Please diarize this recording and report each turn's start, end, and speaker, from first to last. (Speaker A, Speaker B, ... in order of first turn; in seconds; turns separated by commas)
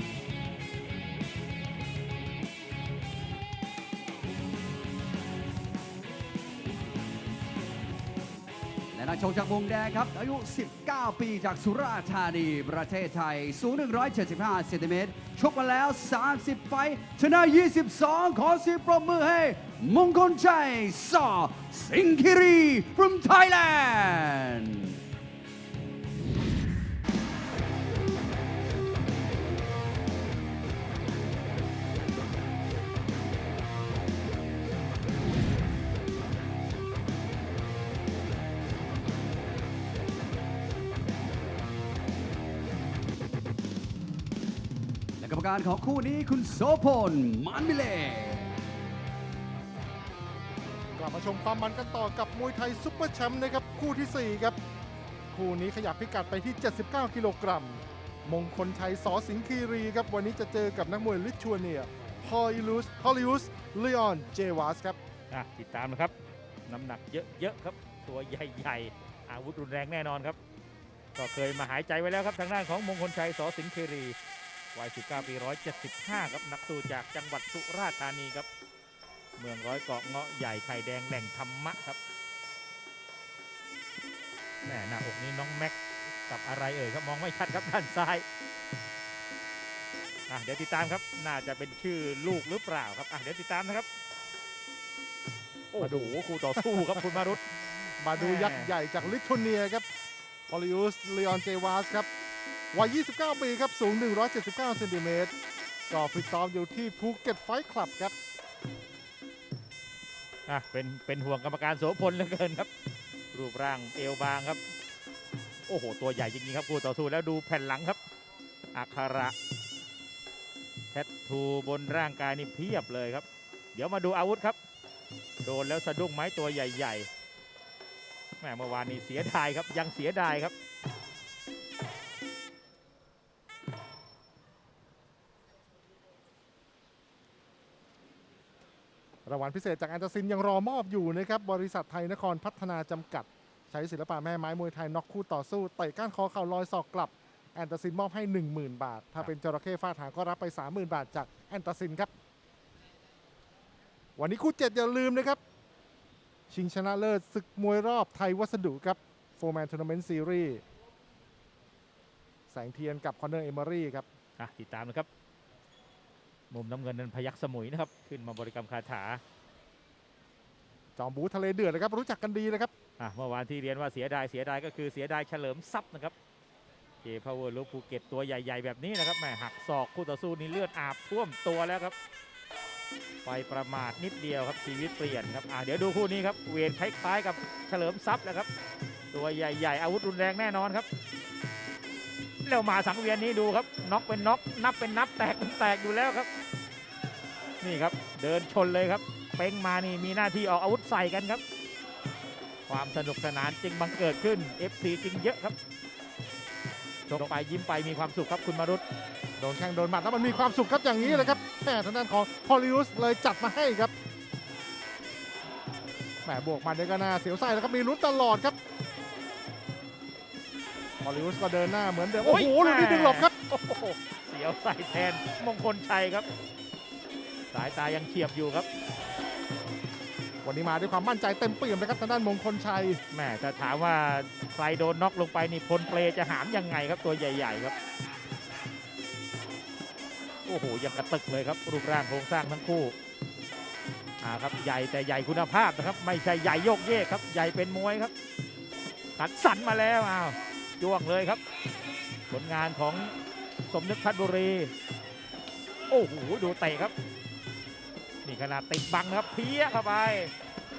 Speaker A: 8.9-25.0, Speaker A: 45.2-48.5, Speaker B: 51.0-54.6, Speaker B: 55.3-65.0, Speaker C: 65.3-66.1, Speaker C: 66.7-70.4, Speaker C: 71.2-74.2, Speaker C: 74.7-78.5, Speaker C: 79.4-82.0, Speaker C: 84.6-85.8, Speaker C: 86.3-88.2, Speaker C: 90.3-93.9, Speaker C: 95.7-97.4, Speaker B: 95.8-96.1, Speaker B: 98.0-99.8, Speaker C: 98.2-98.7, Speaker B: 100.5-102.1, Speaker B: 102.7-105.3, Speaker B: 105.9-108.1, Speaker C: 110.5-112.7, Speaker C: 113.3-114.6, Speaker C: 115.7-118.0, Speaker C: 118.7-119.3, Speaker C: 120.9-124.6, Speaker C: 125.4-127.1, Speaker C: 128.4-130.5, Speaker B: 139.2-152.1, Speaker B: 154.2-155.4, Speaker B: 156.5-160.6, Speaker B: 162.5-164.1, Speaker C: 164.4-165.1, Speaker C: 166.5-169.2, Speaker B: 171.0-172.7, Speaker C: 173.0-176.1, Speaker C: 177.0-181.9, Speaker C: 183.2-188.5, Speaker C: 189.1-190.9, Speaker C: 192.4-196.3, Speaker C: 197.6-201.4, Speaker C: 202.7-205.6, Speaker C: 207.1-208.8, Speaker B: 209.4-213.9, Speaker C: 211.0-211.4, Speaker B: 216.2-218.6, Speaker B: 221.0-223.3, Speaker C: 222.2-226.3, Speaker C: 227.5-228.7, Speaker B: 230.4-233.0, Speaker C: 233.1-237.7, Speaker C: 240.5-242.9, Speaker C: 244.2-248.1, Speaker C: 249.2-251.4, Speaker C: 252.3-253.1, Speaker C: 253.7-254.7, Speaker C: 255.9-256.9, Speaker C: 258.2-260.3